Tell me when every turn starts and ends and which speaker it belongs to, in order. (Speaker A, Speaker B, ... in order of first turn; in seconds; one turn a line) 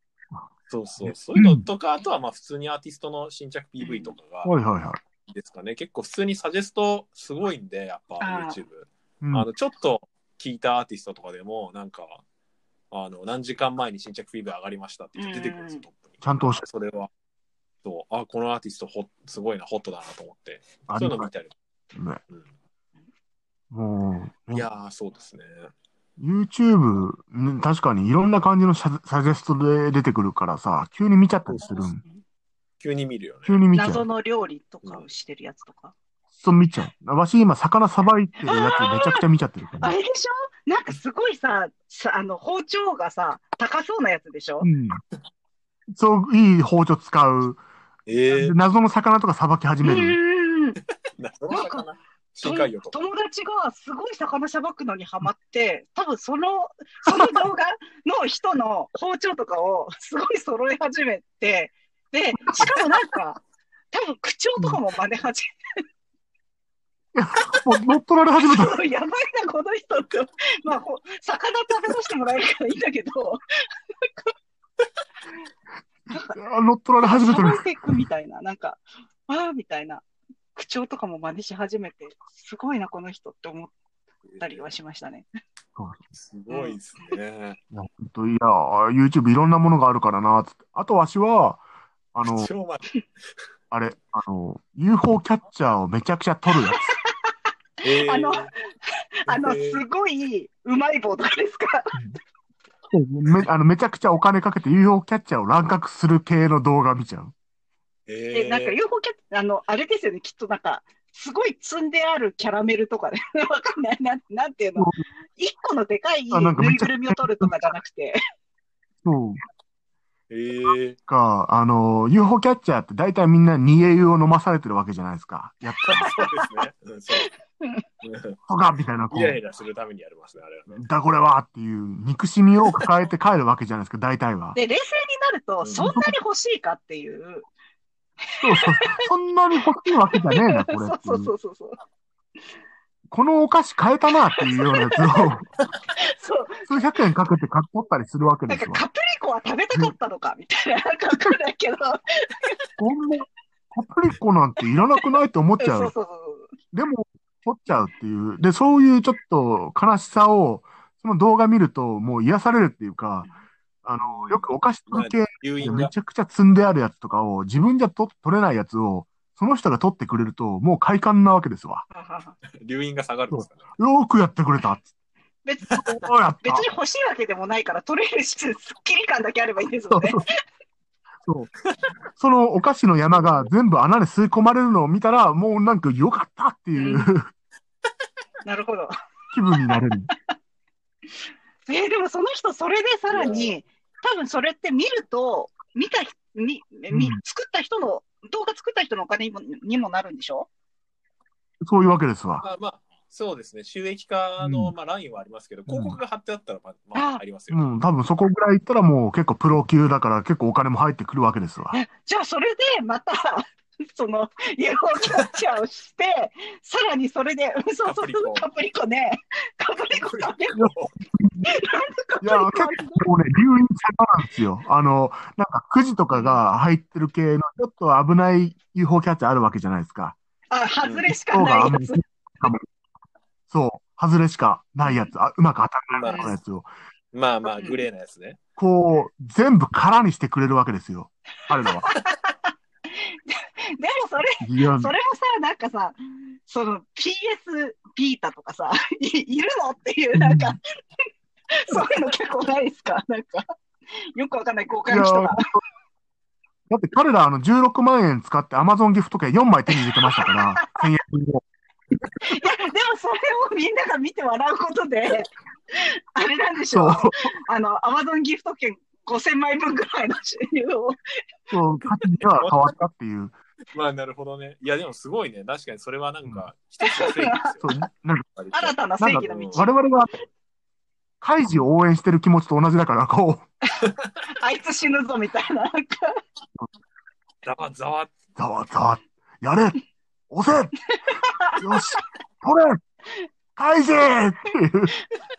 Speaker A: 0.7-4.6
Speaker B: 1.0-1.6
Speaker C: 3.8-4.2
Speaker B: 4.4-5.0
Speaker A: 5.3-12.2
Speaker C: 8.2-8.6
Speaker B: 9.2-9.5
Speaker A: 12.9-17.1
Speaker C: 15.2-15.8
Speaker B: 16.2-16.6
Speaker A: 17.8-21.5
Speaker B: 20.9-21.3
Speaker B: 21.9-22.2
Speaker B: 23.7-24.7
Speaker A: 24.5-25.7
Speaker B: 26.2-32.0
Speaker A: 31.5-31.8
Speaker A: 32.8-33.6
Speaker B: 33.5-34.1
Speaker C: 33.7-35.9
Speaker B: 36.4-39.9
Speaker C: 38.4-39.2
Speaker C: 39.8-44.7
Speaker B: 44.6-45.0
Speaker B: 45.9-47.6
Speaker A: 48.1-48.6
Speaker B: 48.3-50.2
Speaker C: 49.8-50.8
Speaker A: 51.2-53.0
Speaker C: 51.5-51.9
Speaker C: 52.4-63.4
Speaker C: 63.9-65.5
Speaker B: 67.2-68.8
Speaker C: 68.4-73.4
Speaker C: 76.1-76.4
Speaker B: 76.3-77.6
Speaker C: 77.0-80.0
Speaker C: 80.5-83.7
Speaker A: 84.3-84.6
Speaker C: 84.4-85.3
Speaker A: 86.1-87.6
Speaker C: 86.5-86.8
Speaker B: 87.7-91.6
Speaker B: 92.1-92.5
Speaker A: 92.2-92.8
Speaker B: 93.7-96.9
Speaker C: 96.7-97.1
Speaker A: 97.8-98.5
Speaker C: 97.8-102.0
Speaker A: 99.3-99.8
Speaker B: 102.9-107.3
Speaker A: 108.1-108.8
Speaker C: 108.3-118.2
Speaker B: 114.8-115.0
Speaker B: 116.3-117.5
Speaker B: 119.0-119.4
Speaker A: 120.3-121.0
Speaker B: 121.1-126.1
Speaker C: 125.7-126.5
Speaker A: 125.9-127.3
Speaker C: 127.1-127.8
Speaker A: 128.0-128.4
Speaker B: 128.5-129.4
Speaker A: 129.1-130.8
Speaker B: 130.8-134.6
Speaker C: 134.6-137.5
Speaker A: 135.6-135.9
Speaker B: 135.8-136.2
Speaker C: 138.4-139.1
Speaker B: 138.4-141.3
Speaker C: 140.1-141.8
Speaker B: 143.1-145.5
Speaker C: 144.4-145.3
Speaker C: 146.0-146.8
Speaker B: 146.7-148.8
Speaker C: 148.5-152.6
Speaker B: 152.8-155.9
Speaker C: 155.6-156.5
Speaker B: 156.7-163.3
Speaker B: 163.8-171.8
Speaker A: 164.3-165.9
Speaker C: 171.9-172.3
Speaker A: 172.6-173.7
Speaker B: 173.3-174.9
Speaker C: 175.4-180.2
Speaker B: 176.1-176.7
Speaker B: 179.9-180.2
Speaker B: 181.2-181.5
Speaker B: 182.2-187.3
Speaker C: 186.8-187.1
Speaker C: 188.4-188.9
Speaker B: 189.3-190.1
Speaker C: 189.5-189.8
Speaker C: 191.7-200.5
Speaker A: 193.1-193.6
Speaker B: 196.9-197.2
Speaker B: 201.6-202.4
Speaker A: 202.4-207.6
Speaker B: 204.4-204.7
Speaker B: 205.7-206.0
Speaker C: 206.9-207.2
Speaker B: 207.5-211.8
Speaker C: 211.7-220.7
Speaker A: 217.8-218.5
Speaker A: 219.9-220.9
Speaker B: 220.6-221.5
Speaker C: 221.4-223.1
Speaker B: 222.2-230.2
Speaker C: 226.1-226.4
Speaker C: 230.5-232.0
Speaker A: 230.8-231.1
Speaker B: 231.3-232.7
Speaker B: 233.5-236.7
Speaker A: 235.9-236.3
Speaker C: 236.1-236.3
Speaker A: 237.1-238.4
Speaker C: 237.5-237.8
Speaker B: 238.6-241.9
Speaker C: 241.6-250.6
Speaker B: 244.4-244.9
Speaker B: 250.2-250.6
Speaker C: 251.5-255.4
Speaker B: 254.9-255.6
Speaker B: 256.7-261.4
Speaker C: 259.8-260.9
Speaker C: 262.2-271.0
Speaker B: 266.7-267.3
Speaker B: 271.5-273.4
Speaker A: 272.4-272.7
Speaker A: 273.7-277.7
Speaker C: 276.8-277.8
Speaker B: 277.6-280.1
Speaker C: 278.5-279.7
Speaker A: 279.2-279.6
Speaker B: 281.2-283.5
Speaker C: 284.3-286.2
Speaker A: 287.4-288.1
Speaker B: 288.4-289.8
Speaker B: 290.3-290.7
Speaker C: 291.0-292.0
Speaker B: 291.6-292.8
Speaker B: 293.6-294.9